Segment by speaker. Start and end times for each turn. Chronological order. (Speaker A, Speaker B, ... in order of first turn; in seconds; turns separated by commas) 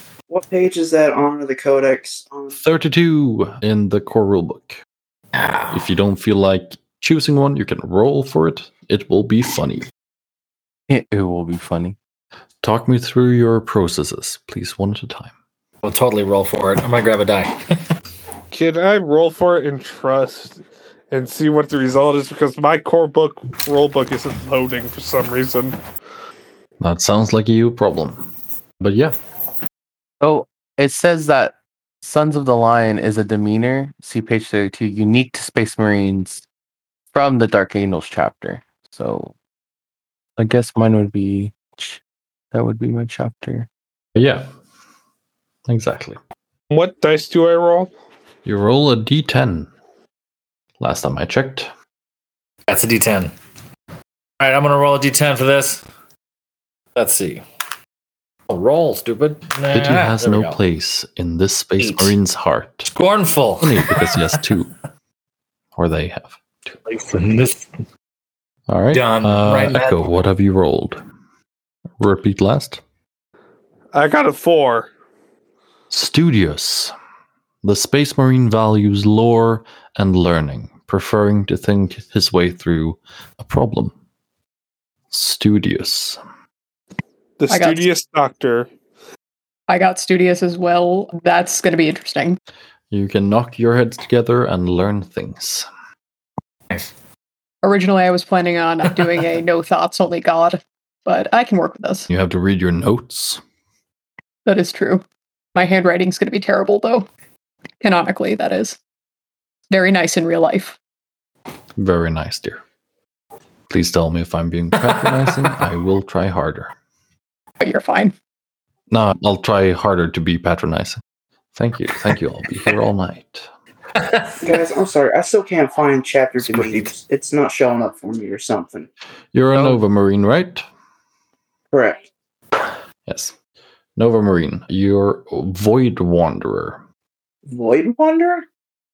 Speaker A: 0.3-2.6, Speaker B: 2.6-4.8, Speaker C: 5.3-5.8, Speaker B: 5.7-9.9, Speaker D: 10.9-12.0, Speaker B: 12.6-15.3, Speaker C: 15.8-17.8, Speaker E: 18.5-25.8, Speaker B: 26.8-28.3, Speaker B: 28.8-29.2, Speaker D: 30.2-36.5, Speaker D: 37.1-39.3, Speaker D: 40.4-42.0, Speaker D: 42.5-43.7, Speaker B: 44.1-44.5, Speaker B: 45.7-46.2, Speaker E: 46.7-47.9, Speaker B: 48.5-49.7, Speaker B: 50.8-51.7, Speaker C: 52.7-53.3, Speaker C: 54.4-55.9, Speaker C: 57.0-57.4, Speaker C: 58.5-60.6, Speaker B: 59.7-62.9, Speaker C: 61.8-62.1, Speaker C: 62.9-64.4, Speaker B: 63.6-64.7, Speaker B: 65.8-66.8, Speaker C: 66.9-67.7, Speaker B: 68.7-71.0, Speaker C: 68.9-70.1, Speaker B: 72.0-72.8, Speaker E: 73.9-74.9, Speaker B: 75.9-76.9, Speaker B: 77.6-83.9, Speaker B: 85.1-86.2, Speaker E: 87.4-88.7, Speaker F: 87.5-87.9, Speaker F: 89.7-92.4, Speaker B: 92.9-95.7, Speaker F: 97.6-102.1, Speaker B: 102.1-103.4, Speaker F: 104.5-105.0, Speaker F: 105.5-107.1, Speaker F: 107.8-108.8, Speaker F: 109.7-110.8, Speaker B: 111.8-112.6, Speaker B: 113.7-116.7, Speaker C: 114.8-115.3, Speaker F: 117.6-118.2, Speaker B: 118.9-121.0, Speaker B: 121.5-123.5, Speaker C: 124.0-124.5, Speaker A: 124.4-128.9, Speaker B: 129.3-130.6, Speaker A: 131.7-132.0, Speaker B: 133.1-133.3, Speaker B: 134.0-136.8, Speaker A: 137.5-138.4